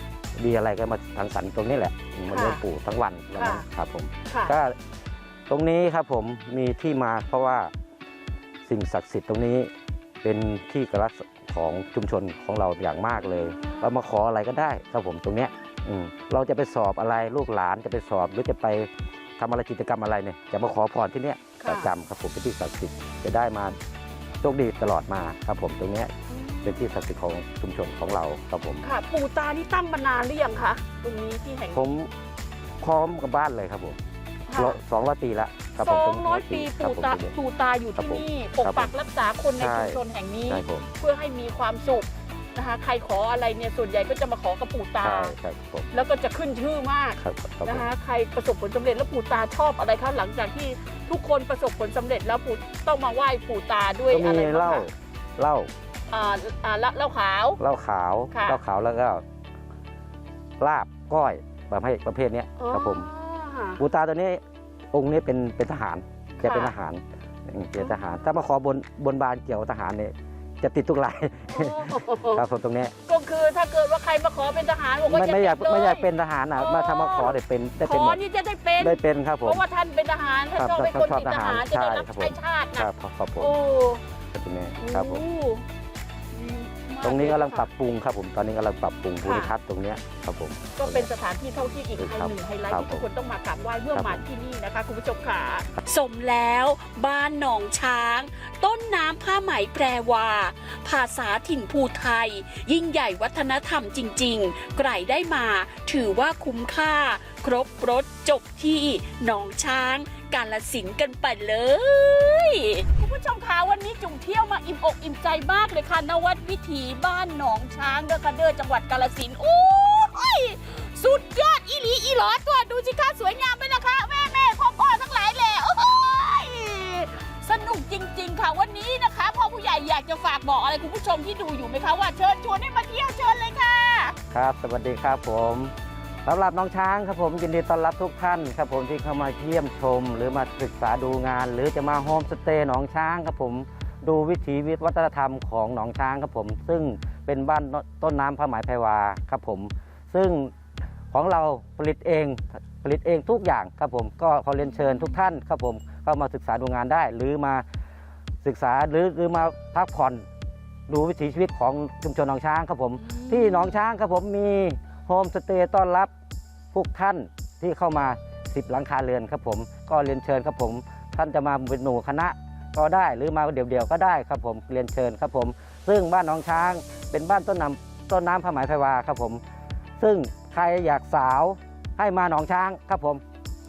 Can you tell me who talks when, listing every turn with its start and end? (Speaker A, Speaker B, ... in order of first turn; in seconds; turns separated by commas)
Speaker A: 0.3-4.8, Speaker B: 2.3-2.6, Speaker B: 3.4-3.6, Speaker B: 4.3-4.5, Speaker A: 5.5-7.7, Speaker A: 8.7-9.7, Speaker A: 10.2-23.8, Speaker B: 21.6-21.9, Speaker A: 24.4-26.1, Speaker B: 26.3-26.9, Speaker A: 26.6-28.9, Speaker B: 28.8-31.8, Speaker A: 31.7-32.1, Speaker A: 32.8-34.0, Speaker B: 34.5-34.8, Speaker A: 34.5-37.3, Speaker B: 35.8-45.3, Speaker A: 38.0-38.9, Speaker A: 39.6-40.9, Speaker A: 45.0-45.9, Speaker B: 45.9-54.9, Speaker A: 47.2-47.9, Speaker A: 54.1-55.7, Speaker B: 56.1-57.6, Speaker A: 57.6-59.2, Speaker B: 58.3-58.6, Speaker A: 60.6-63.1, Speaker B: 62.6-63.8, Speaker A: 63.8-72.9, Speaker B: 66.4-66.7, Speaker B: 71.5-72.4, Speaker B: 73.1-82.9, Speaker A: 75.1-78.2, Speaker A: 78.8-79.6, Speaker A: 80.5-83.6, Speaker B: 83.4-84.0, Speaker A: 84.3-85.2, Speaker B: 84.8-85.6, Speaker B: 86.3-87.7, Speaker A: 87.0-91.1, Speaker B: 89.2-89.5, Speaker B: 90.8-95.7, Speaker A: 92.0-93.1, Speaker A: 93.9-94.2, Speaker C: 95.8-112.9, Speaker B: 112.9-134.2, Speaker A: 134.3-135.7, Speaker A: 136.2-150.5, Speaker A: 151.1-157.6, Speaker A: 158.4-160.2, Speaker A: 160.9-166.1, Speaker B: 163.1-163.7, Speaker A: 166.7-179.4, Speaker A: 180.0-183.2